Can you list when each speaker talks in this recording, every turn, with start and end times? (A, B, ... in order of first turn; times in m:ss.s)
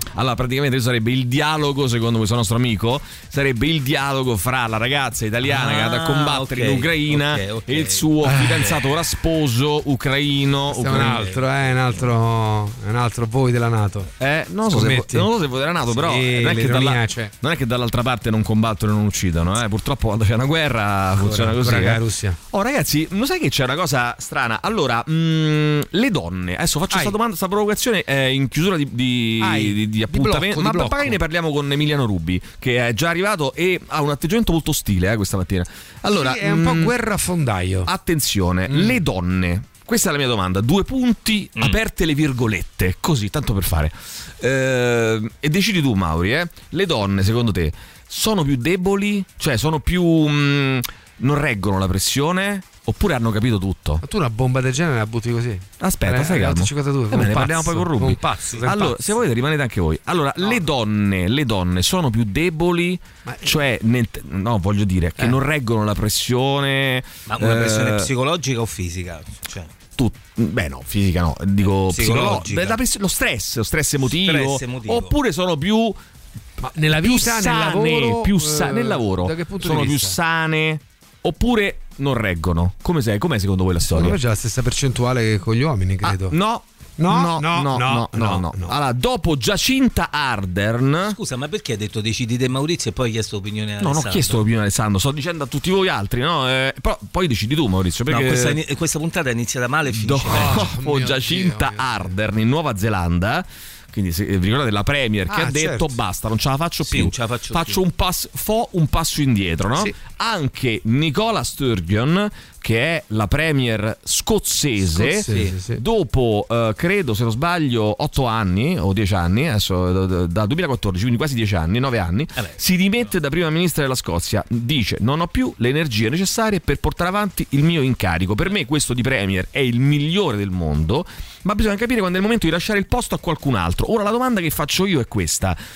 0:00.1-0:11.2 A
0:05.4-0:08.7 B
0:08.2-0:08.7 C
0:10.7-0:14.1 C
0:11.0-0:11.7 B
0:14.2-0:36.9 A
0:14.7-0:15.3 C
0:15.9-0:17.3 C
0:21.2-0:22.4 C
0:29.4-0:31.2 C
0:36.1-0:37.9 C
0:37.8-0:54.0 A
0:38.7-0:39.0 C
0:54.0-0:59.2 C
0:55.8-1:08.1 A
1:03.2-1:03.6 C
1:07.3-1:09.7 B
1:10.0-1:16.0 A
1:11.9-1:12.8 B
1:14.2-1:15.1 B
1:16.6-1:20.2 C
1:17.0-1:24.2 A
1:23.9-1:26.3 C
1:26.0-1:31.2 A
1:27.0-1:28.7 C
1:31.1-1:34.4 B
1:33.8-1:38.6 A
1:38.1-1:40.7 B
1:39.9-2:15.6 A
1:40.3-1:42.1 C
1:45.3-1:45.9 C
1:46.8-1:47.8 B
1:54.9-1:55.8 C
1:55.3-1:55.5 B